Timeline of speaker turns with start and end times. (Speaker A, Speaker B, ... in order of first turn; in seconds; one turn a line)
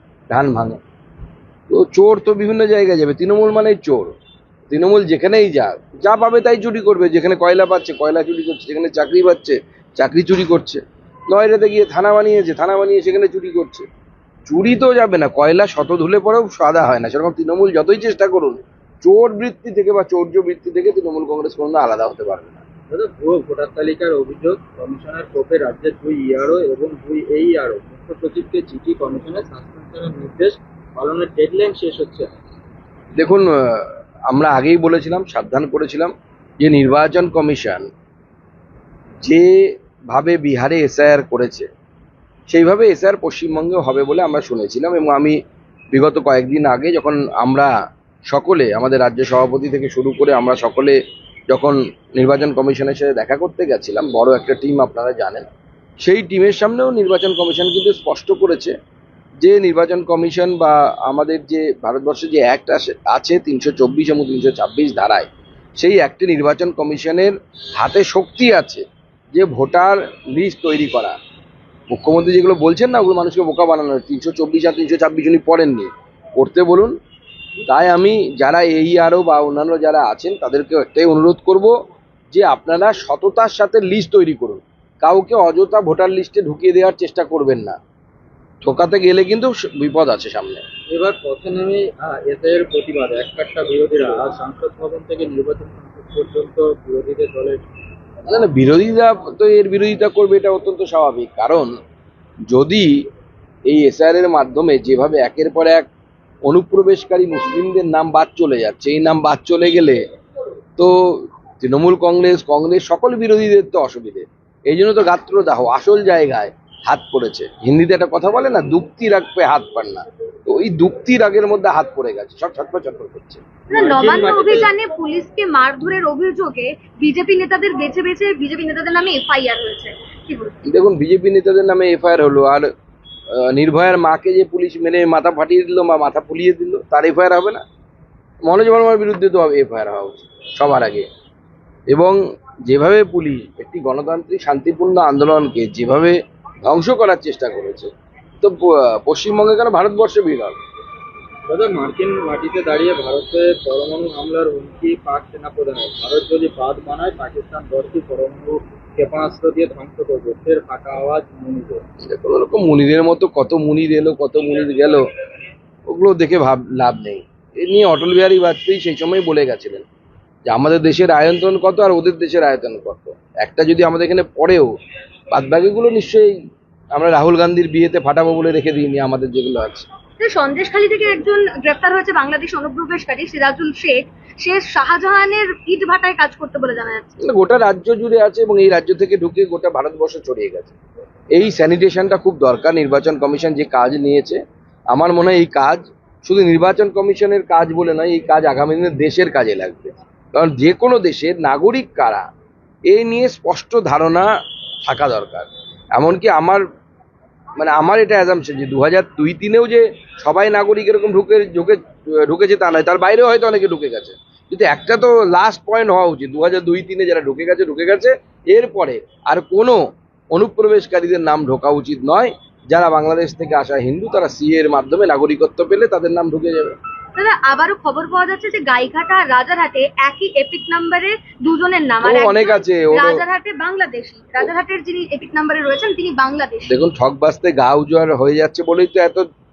Speaker A: 0.3-0.8
Speaker A: 1.7-4.1
Speaker A: 4.7-13.8
Speaker A: 14.5-22.6
Speaker B: 22.9-32.3
Speaker A: 33.1-37.9
Speaker A: 39.2-41.7
Speaker A: 42.5-45.4
Speaker A: 45.9-47.7
Speaker A: 48.3-51.0
Speaker A: 51.5-55.5
Speaker A: 56.0-58.7
Speaker A: 59.4-71.2
Speaker A: 71.9-76.9
Speaker A: 77.7-81.7
Speaker A: 82.3-87.8
Speaker A: 88.6-90.6
Speaker B: 90.9-97.6
Speaker A: 98.2-101.7
Speaker A: 102.5-102.9
Speaker A: 103.7-105.9
Speaker A: 106.4-110.0
Speaker A: 110.8-123.5
Speaker B: 123.7-124.7
Speaker C: 123.7-130.6
Speaker A: 130.6-132.7
Speaker A: 133.4-137.6
Speaker A: 138.4-141.1
Speaker A: 141.9-150.6
Speaker B: 151.5-161.8
Speaker A: 162.0-165.0
Speaker A: 165.9-169.8
Speaker A: 170.5-174.7
Speaker A: 175.3-176.3
Speaker A: 176.9-179.9
Speaker C: 180.2-187.1
Speaker A: 187.2-190.7
Speaker A: 191.3-194.4
Speaker A: 194.9-202.2
Speaker A: 202.9-204.3
Speaker A: 204.8-206.6
Speaker A: 207.6-219.8
Speaker A: 220.3-226.7
Speaker C: 227.2-236.7
Speaker A: 232.0-233.2
Speaker A: 236.7-239.2